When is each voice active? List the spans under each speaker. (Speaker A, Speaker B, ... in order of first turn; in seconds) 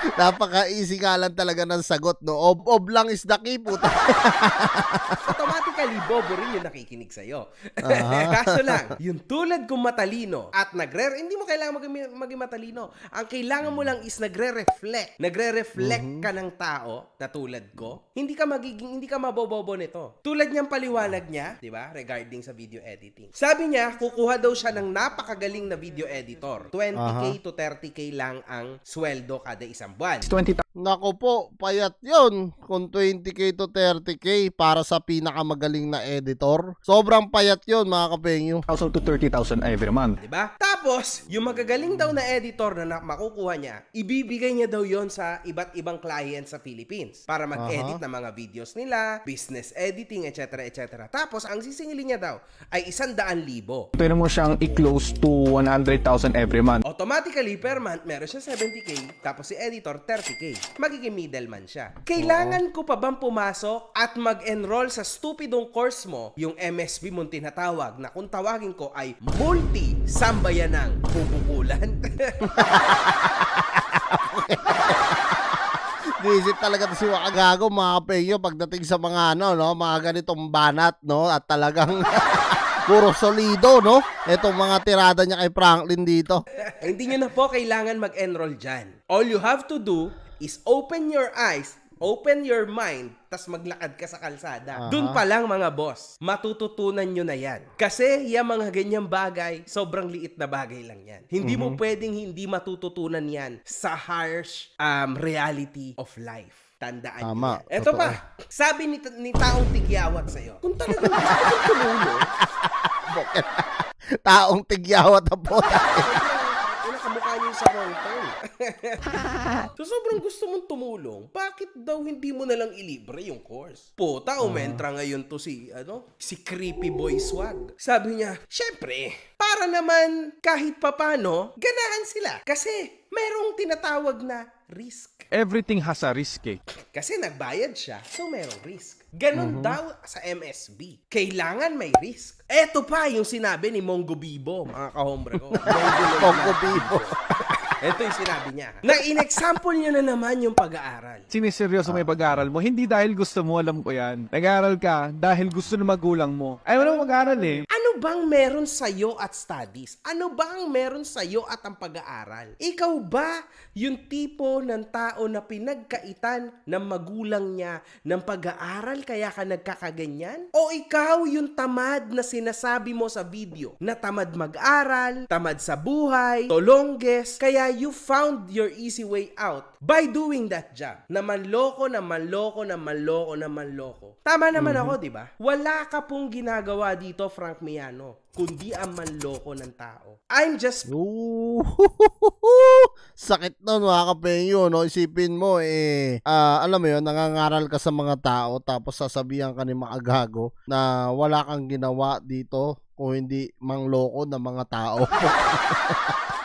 Speaker A: 0.2-5.3, 7.8-8.9, 15.8-16.3, 27.0-27.4, 30.8-38.6, 47.6-48.0, 62.2-62.6, 72.6-86.4, 94.8-95.2, 101.4-101.8, 107.2-108.2, 110.9-113.7, 114.2-116.1, 124.4-124.8, 139.3-139.8, 145.5-147.6, 151.8-152.3, 184.5-185.0, 190.9-206.2
Speaker B: 5.2-30.3, 40.2-53.9, 56.8-72.4, 86.7-112.3, 116.0-135.3, 136.9-147.2, 147.8-151.3, 157.7-190.9
Speaker C: 30.2-30.6, 38.7-40.2, 54.0-56.8, 135.3-136.6, 151.3-157.7